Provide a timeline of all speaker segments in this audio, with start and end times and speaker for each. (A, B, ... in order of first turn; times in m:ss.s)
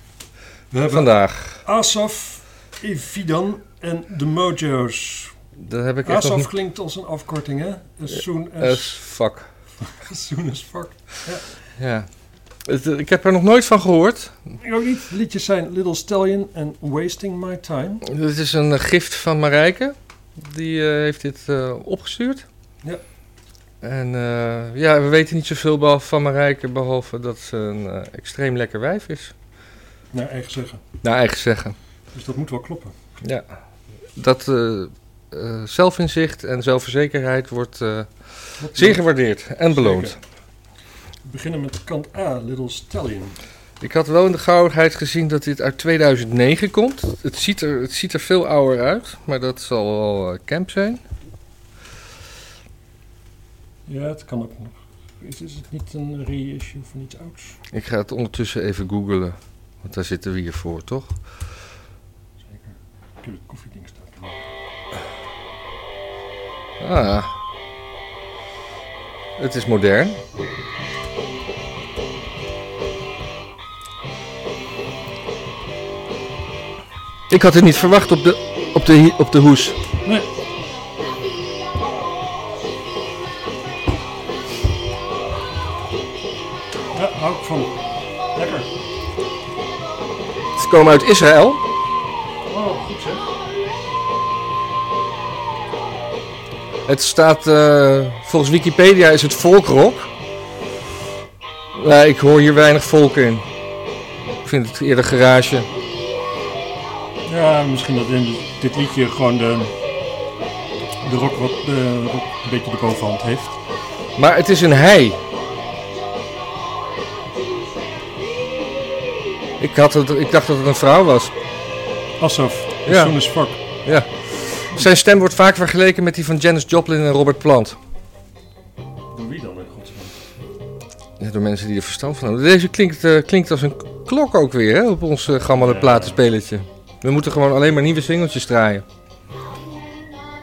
0:00.7-0:05.3 A
0:00.8-0:01.6 B
0:05.6-0:06.5 B
0:06.0-0:09.0 A
0:08.6-0:09.5 B
0:09.8-0:11.5 A
0:11.8-0:12.1 B
0:12.6-0:14.4 B
0:14.6-0:18.0 A
0:18.0-0:22.4 B
0:23.8-0:29.3 B
0:30.1-0:30.8 A
0:31.0-0:31.8 B
0:32.1-0:32.9 A
0:34.2-0:38.1 B
0:38.6-0:39.0 A
0:38.7-0:40.1 B
0:39.7-0:40.2 A
0:41.2-0:43.4 A
0:43.8-0:51.0 B
0:53.9-0:57.6 A
0:57.7-1:01.1 B
1:02.4-1:04.5 A
1:06.8-1:07.3 B
1:09.4-1:10.2 B
1:17.3-1:19.8 B
1:20.0-1:20.3 A
1:26.9-1:28.7 A
1:30.6-1:31.6 B
1:32.4-1:33.3 A
1:36.8-1:40.1 B
1:41.7-1:43.4 B
1:44.4-1:45.7 B
1:47.2-1:49.7 A
1:51.0-1:53.6 A
1:54.2-1:55.2 B
1:59.6-2:01.3 B
2:02.2-2:03.6 A
2:02.9-2:03.1 B
2:03.8-2:07.8 B
2:09.1-2:10.2 A
2:11.2-2:18.8 B
2:15.6-2:16.2 A